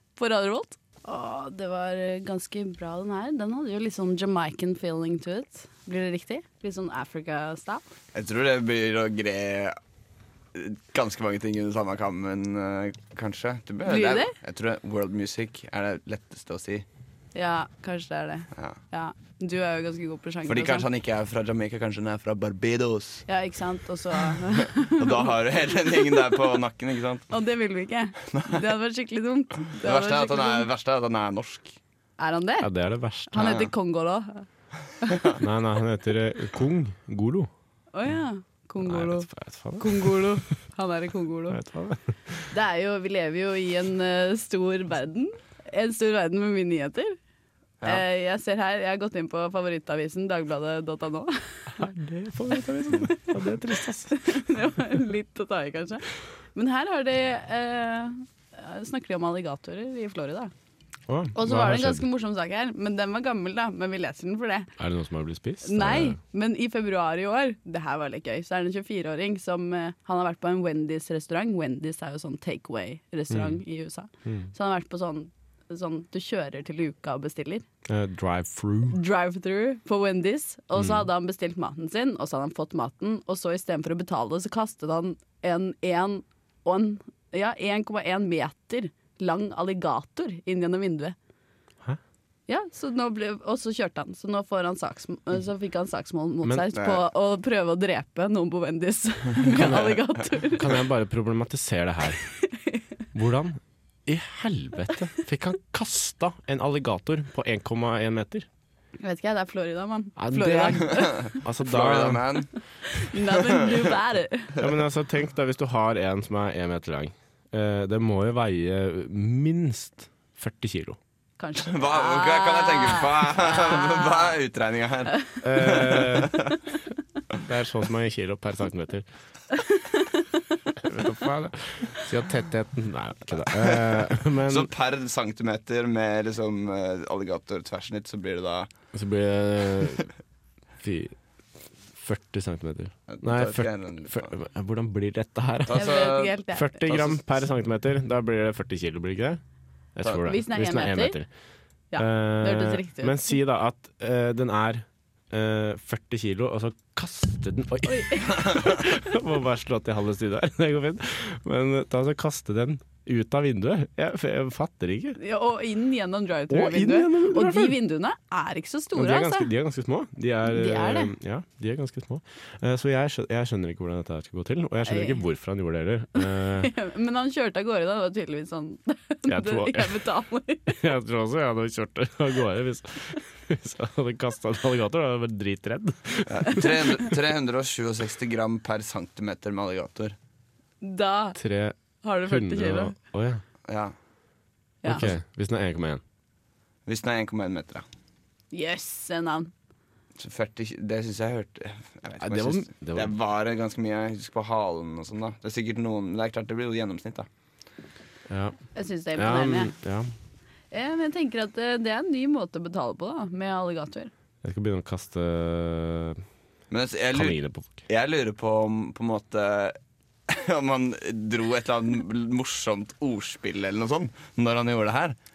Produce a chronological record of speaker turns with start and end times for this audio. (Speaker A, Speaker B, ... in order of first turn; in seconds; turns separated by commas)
Speaker A: 0.2-7.8, Speaker B: 8.1-9.8, Speaker B: 10.5-16.9, Speaker A: 13.8-14.3, Speaker A: 17.4-20.9, Speaker B: 20.5-23.2, Speaker A: 23.2-26.4, Speaker B: 24.3-27.3, Speaker A: 27.3-30.7, Speaker B: 28.3-28.6, Speaker B: 29.8-31.8, Speaker A: 32.2-32.7, Speaker C: 32.6-33.6, Speaker A: 33.3-34.5, Speaker B: 33.4-33.7, Speaker A: 35.0-35.3, Speaker C: 35.4-37.5, Speaker A: 37.9-41.6, Speaker C: 38.8-40.4, Speaker C: 41.5-42.5, Speaker A: 42.5-47.2, Speaker A: 47.8-51.8, Speaker C: 51.8-54.5, Speaker A: 54.1-56.0, Speaker A: 56.5-60.5, Speaker C: 61.1-62.0, Speaker A: 61.4-64.7, Speaker C: 64.8-66.2, Speaker A: 65.6-77.7, Speaker C: 73.3-73.6, Speaker C: 74.2-74.5, Speaker C: 77.9-79.0, Speaker A: 78.9-91.2, Speaker A: 92.5-100.7, Speaker B: 96.8-97.0, Speaker C: 99.5-102.3, Speaker A: 102.5-102.8, Speaker C: 103.1-108.5, Speaker A: 109.0-111.3, Speaker C: 110.2-112.5, Speaker B: 111.2-112.5, Speaker A: 112.9-114.6, Speaker B: 113.4-113.7, Speaker C: 114.6-121.0, Speaker A: 121.4-124.3, Speaker B: 121.7-126.5, Speaker C: 125.4-126.4, Speaker C: 127.5-129.1, Speaker C: 130.8-134.7, Speaker B: 133.6-138.7, Speaker C: 138.9-140.1, Speaker C: 140.8-141.2, Speaker C: 141.9-149.4, Speaker B: 143.1-144.3, Speaker B: 145.7-146.3, Speaker A: 145.7-146.9, Speaker B: 146.9-147.3, Speaker C: 149.9-151.3, Speaker A: 150.2-151.2, Speaker A: 151.9-153.3, Speaker C: 152.0-165.2, Speaker A: 157.8-158.7, Speaker A: 165.2-169.5, Speaker C: 166.5-167.8, Speaker C: 168.9-176.7, Speaker A: 170.5-171.1, Speaker A: 174.8-175.2, Speaker A: 176.4-180.8, Speaker C: 179.3-180.1, Speaker C: 180.7-187.2, Speaker B: 186.3-190.2, Speaker A: 190.8-191.4, Speaker C: 191.4-193.4, Speaker A: 192.0-192.9, Speaker B: 193.7-193.9, Speaker C: 194.8-196.0, Speaker B: 196.9-197.8, Speaker A: 198.5-199.5, Speaker B: 200.2-207.3, Speaker C: 202.2-203.1, Speaker C: 208.3-208.6, Speaker A: 208.8-209.7, Speaker C: 209.2-210.1, Speaker A: 210.7-214.1, Speaker C: 214.4-216.2, Speaker B: 216.7-219.8, Speaker C: 217.1-217.9, Speaker B: 220.3-225.2